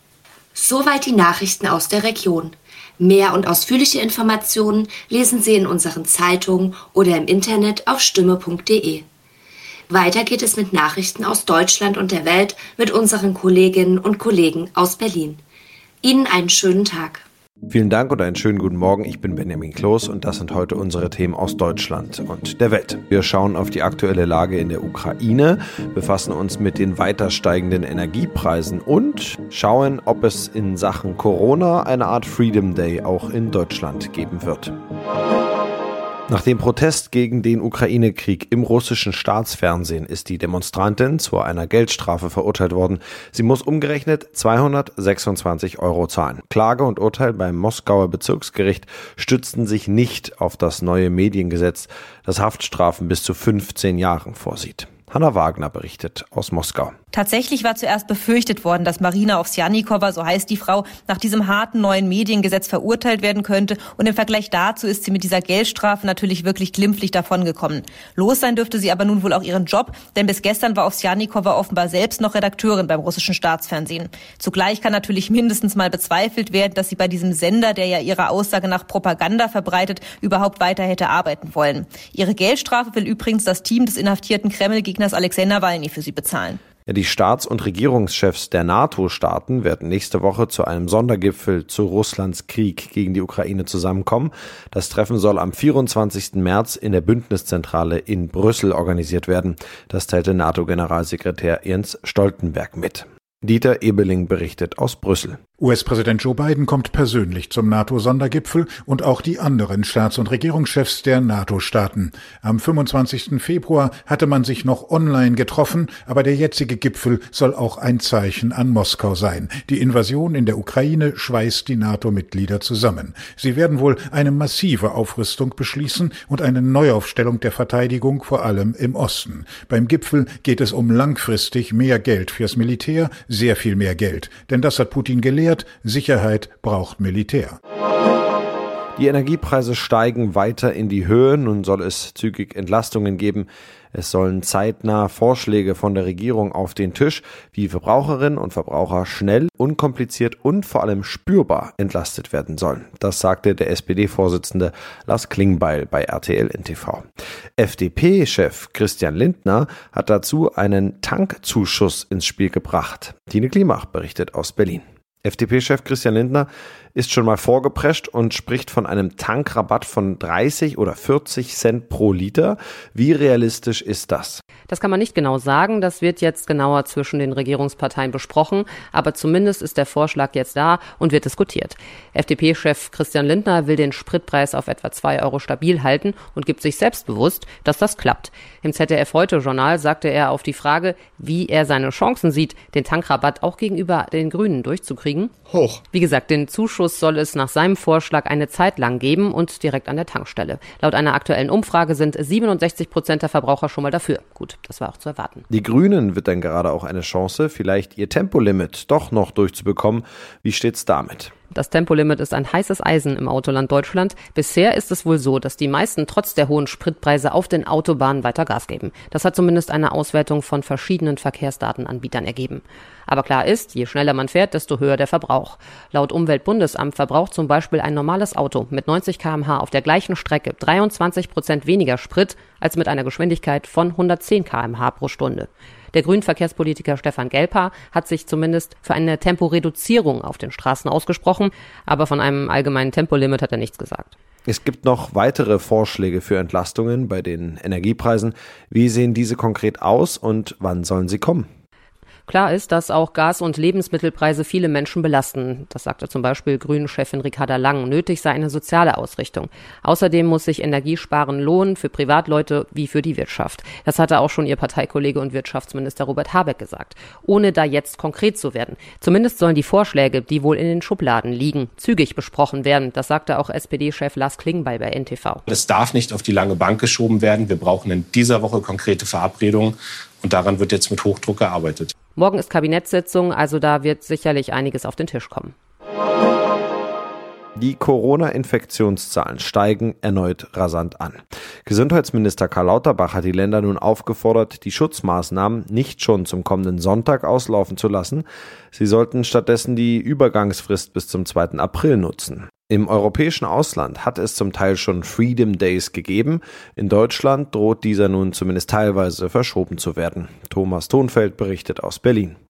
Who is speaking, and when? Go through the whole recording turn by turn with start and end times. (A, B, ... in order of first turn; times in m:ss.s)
0:00.6-0:09.0 A
0:09.9-0:15.4 A
0:16.0-0:17.2 A
0:17.7-0:34.8 B
0:36.3-0:57.0 B
0:57.1-1:26.6 C
1:26.9-1:45.4 B
1:45.6-2:17.6 D
2:19.0-2:37.0 B
2:37.6-2:54.4 B
2:54.7-3:15.3 E
3:15.9-3:25.4 E
3:25.5-3:31.3 B
3:31.5-4:04.2 E
4:04.5-4:11.5 B
4:12.3-4:35.4 E
4:35.5-4:41.9 F
4:42.2-4:45.5 E
4:47.6-5:12.4 B